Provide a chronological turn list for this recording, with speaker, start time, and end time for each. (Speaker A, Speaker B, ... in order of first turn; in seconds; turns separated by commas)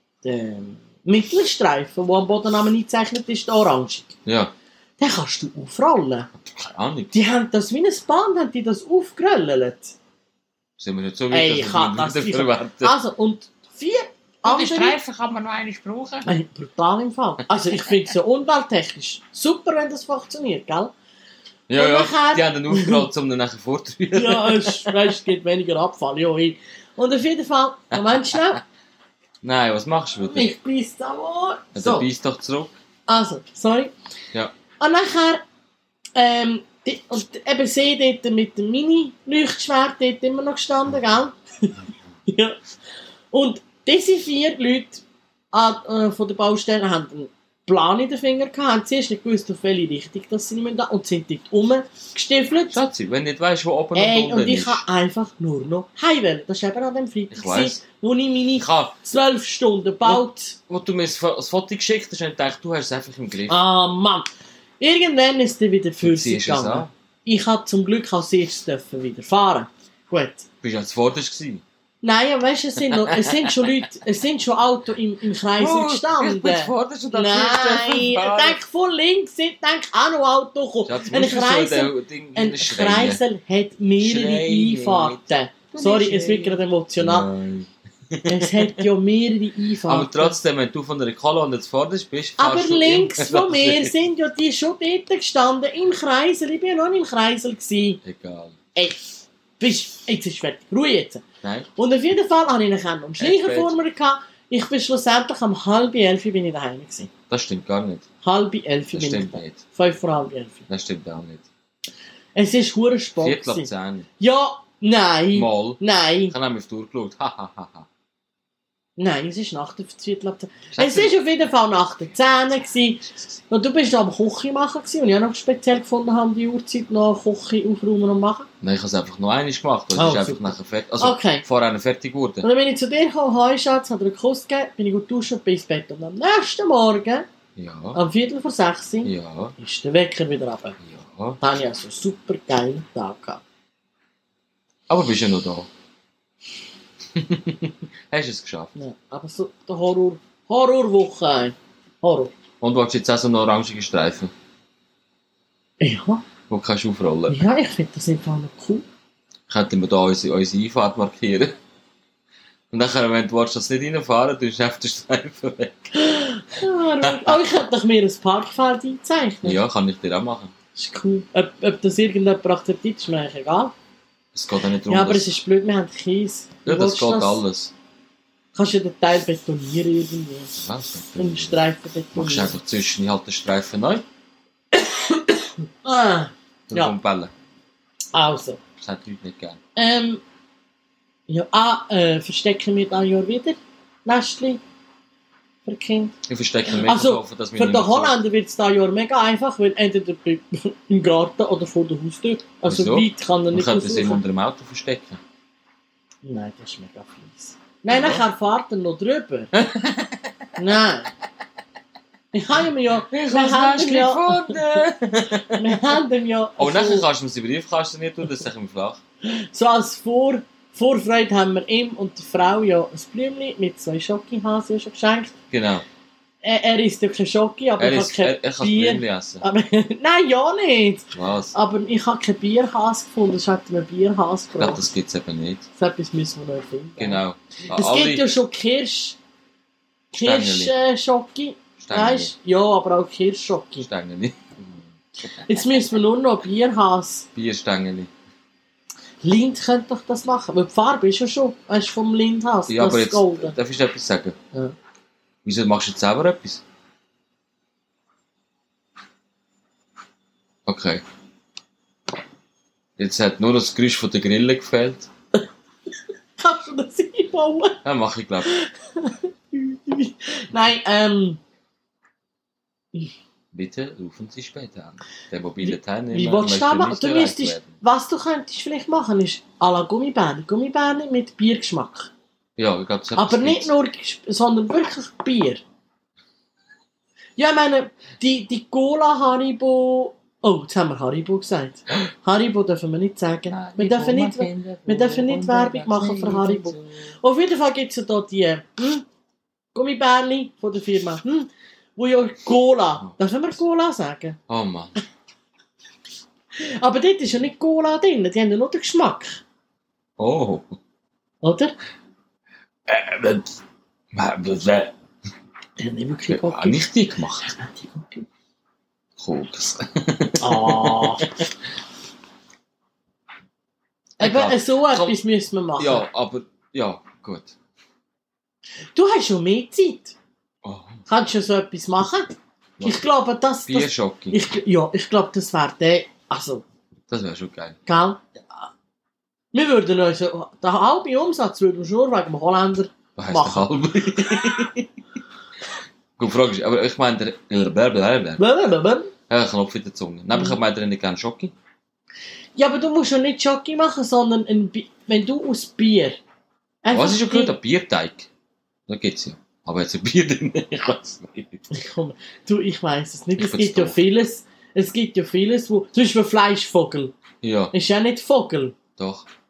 Speaker A: 0.2-4.2, Speaker B: 4.2-4.5, Speaker A: 5.0-6.3, Speaker B: 6.4-7.1, Speaker A: 7.1-9.9, Speaker B: 10.8-12.9, Speaker A: 11.3-15.0, Speaker C: 14.4-16.3, Speaker A: 16.2-20.9, Speaker B: 21.7-25.0, Speaker A: 21.7-23.0, Speaker A: 24.1-28.6, Speaker B: 29.4-30.5, Speaker A: 30.3-32.1, Speaker B: 31.7-32.7, Speaker A: 33.1-33.9, Speaker A: 34.8-35.4, Speaker A: 36.1-41.7, Speaker A: 42.3-42.6, Speaker A: 43.3-52.8, Speaker B: 52.7-54.8, Speaker A: 53.9-60.6, Speaker B: 57.3-57.8, Speaker B: 58.5-59.0, Speaker B: 60.0-63.6, Speaker A: 63.5-64.3, Speaker A: 64.8-70.5, Speaker B: 66.0-66.9, Speaker B: 70.6-71.6, Speaker A: 72.0-87.3, Speaker B: 73.1-73.7, Speaker B: 75.6-78.6, Speaker B: 80.8-83.2, Speaker B: 84.0-85.3, Speaker C: 85.7-86.6, Speaker B: 87.0-88.8, Speaker A: 88.3-90.3, Speaker B: 89.8-93.9, Speaker A: 92.4-98.0, Speaker B: 98.0-98.5, Speaker A: 98.7-99.0, Speaker A: 99.6-101.2, Speaker B: 101.4-101.7, Speaker A: 101.8-107.1, Speaker B: 103.2-103.8, Speaker B: 107.3-108.0, Speaker A: 108.2-110.6, Speaker B: 108.9-109.6, Speaker B: 110.7-111.5, Speaker A: 112.3-113.7, Speaker B: 113.2-114.1, Speaker A: 114.2-116.3, Speaker B: 115.3-117.9, Speaker A: 119.0-128.5, Speaker B: 120.7-121.1, Speaker B: 128.6-132.5, Speaker A: 129.9-131.4, Speaker A: 132.4-137.2, Speaker B: 137.6-138.0, Speaker A: 137.9-140.8, Speaker B: 139.0-139.5, Speaker B: 140.8-141.4, Speaker A: 141.4-143.4, Speaker B: 144.9-145.7, Speaker B: 147.1-148.7, Speaker A: 148.8-152.3, Speaker B: 152.6-154.3, Speaker A: 155.8-156.2, Speaker B: 156.5-157.4, Speaker A: 157.3-158.8, Speaker B: 159.5-161.6, Speaker B: 162.7-165.9, Speaker A: 165.9-169.6, Speaker B: 167.0-167.4, Speaker B: 169.4-170.5, Speaker A: 170.8-173.7, Speaker B: 174.3-175.3, Speaker A: 174.9-177.4, Speaker B: 176.7-177.7, Speaker A: 178.5-180.5, Speaker B: 180.5-181.6, Speaker A: 181.2-182.5, Speaker B: 182.1-184.0, Speaker A: 184.7-186.9, Speaker B: 186.7-187.3, Speaker A: 188.1-188.6, Speaker B: 188.8-189.6, Speaker A: 189.8-190.2, Speaker A: 191.3-194.6, Speaker A: 195.6-196.1, Speaker B: 196.2-198.2, Speaker A: 196.7-204.2, Speaker B: 202.6-205.2, Speaker A: 206.2-209.5, Speaker B: 207.9-208.2, Speaker B: 209.5-210.1, Speaker A: 210.6-211.1, Speaker A: 212.3-214.6, Speaker B: 213.1-215.9, Speaker A: 215.5-217.0, Speaker B: 216.6-219.0, Speaker A: 219.2-225.3, Speaker B: 225.5-225.8, Speaker A: 226.4-234.9, Speaker B: 227.8-229.4, Speaker B: 231.1-231.5, Speaker B: 234.6-235.7, Speaker A: 235.8-239.2, Speaker B: 237.0-238.3, Speaker A: 240.1-243.9, Speaker B: 240.2-240.7, Speaker B: 241.8-242.3, Speaker B: 243.8-244.7, Speaker A: 245.4-247.3, Speaker B: 247.3-248.1, Speaker A: 249.2-253.6, Speaker B: 252.7-254.3, Speaker B: 255.4-256.6, Speaker B: 260.6-261.0, Speaker B: 263.0-265.1, Speaker A: 266.4-267.8, Speaker B: 267.8-268.5, Speaker A: 268.4-271.4, Speaker B: 273.5-277.7, Speaker A: 275.7-282.1, Speaker B: 282.6-283.7, Speaker A: 283.1-285.6, Speaker A: 287.4-299.0, Speaker C: 293.5-297.1, Speaker A: 299.7-304.4, Speaker B: 304.5-304.9, Speaker A: 306.5-309.4, Speaker B: 310.2-310.8, Speaker A: 311.4-311.7, Speaker B: 312.9-313.5, Speaker B: 314.1-314.9, Speaker A: 315.8-316.8, Speaker B: 316.3-317.6, Speaker A: 317.4-318.2, Speaker B: 319.2-321.4, Speaker A: 320.4-321.3, Speaker B: 324.2-325.2, Speaker A: 324.2-326.1, Speaker B: 325.8-327.5, Speaker A: 328.9-330.1, Speaker B: 330.6-331.0, Speaker A: 331.1-336.6, Speaker B: 333.7-334.4, Speaker B: 337.1-337.8, Speaker A: 337.9-338.2, Speaker A: 339.5-343.7, Speaker B: 343.1-344.8, Speaker B: 346.2-348.4, Speaker A: 348.4-349.1, Speaker B: 349.3-351.5, Speaker A: 352.6-356.2, Speaker A: 356.8-357.5, Speaker B: 356.9-358.3, Speaker B: 358.9-361.7, Speaker A: 361.7-367.1, Speaker B: 363.4-364.0, Speaker B: 367.4-367.7, Speaker A: 367.7-368.8, Speaker B: 369.0-369.3